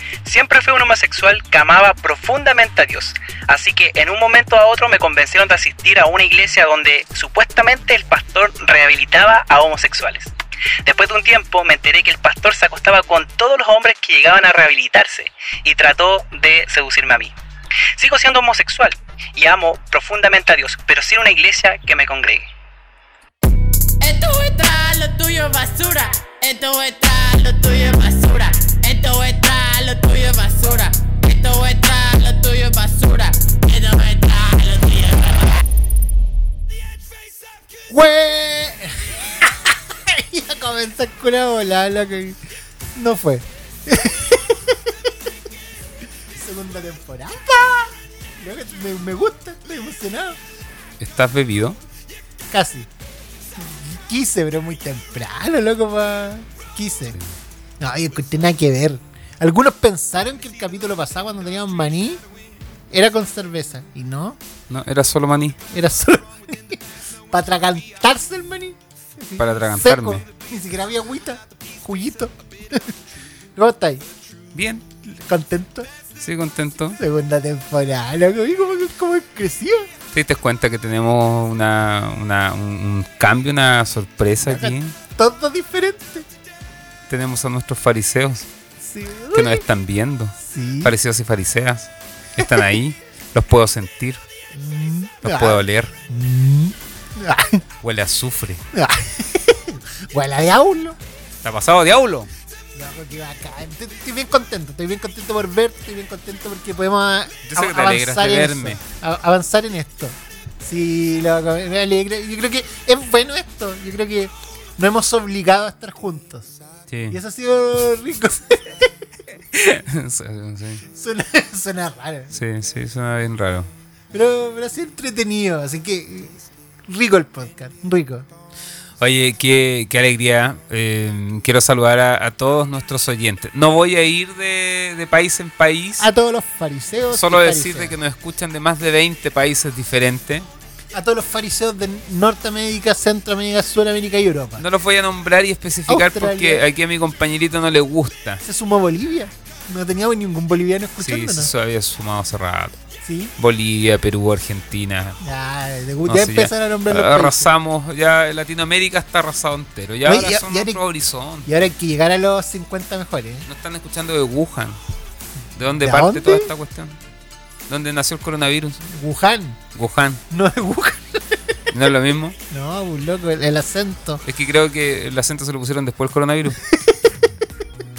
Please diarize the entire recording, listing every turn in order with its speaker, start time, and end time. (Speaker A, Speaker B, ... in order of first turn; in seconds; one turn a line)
Speaker A: 0.2-10.3
Speaker A: 10.8-17.3
Speaker A: 18.0-22.5
Speaker B: 24.0-35.6
Speaker C: 37.9-42.4
Speaker C: 43.0-44.9
Speaker C: 46.3-50.4
Speaker D: 51.0-51.8
Speaker C: 52.5-52.9
Speaker C: 53.6-57.2
Speaker C: 57.8-62.2
Speaker C: 62.9-64.4
Speaker D: 64.7-65.6
Speaker C: 65.7-72.9
Speaker D: 69.4-70.2
Speaker C: 73.6-74.0
Speaker D: 74.5-74.8
Speaker C: 75.1-75.9
Speaker D: 76.2-77.0
Speaker C: 77.0-79.9
Speaker D: 80.1-84.9
Speaker C: 84.4-86.3
Speaker D: 87.1-88.5
Speaker C: 88.8-89.7
Speaker D: 89.3-94.2
Speaker C: 90.4-90.9
Speaker C: 94.5-97.6
Speaker D: 95.2-95.9
Speaker D: 97.8-98.6
Speaker C: 98.7-101.0
Speaker D: 101.4-102.3
Speaker C: 102.8-116.5
Speaker D: 107.4-108.8
Speaker D: 116.9-117.2
Speaker C: 117.1-118.9
Speaker D: 119.5-120.8
Speaker C: 120.9-122.3
Speaker D: 122.3-123.7
Speaker C: 124.1-128.3
Speaker D: 129.0-136.1
Speaker C: 136.0-138.0
Speaker D: 137.1-140.5
Speaker C: 140.9-144.6
Speaker D: 144.6-148.4
Speaker C: 145.9-146.7
Speaker C: 148.4-151.5
Speaker D: 151.0-152.8
Speaker C: 153.0-153.3
Speaker D: 153.4-155.2
Speaker C: 155.2-157.5
Speaker D: 156.1-161.5
Speaker C: 160.0-160.8
Speaker C: 161.4-163.5
Speaker D: 163.5-164.8
Speaker D: 165.6-167.0
Speaker C: 165.8-166.5
Speaker D: 167.7-168.8
Speaker C: 168.8-169.6
Speaker D: 169.7-170.2
Speaker C: 170.3-171.6
Speaker D: 171.7-172.4
Speaker C: 172.5-174.2
Speaker D: 174.2-176.6
Speaker C: 176.6-177.1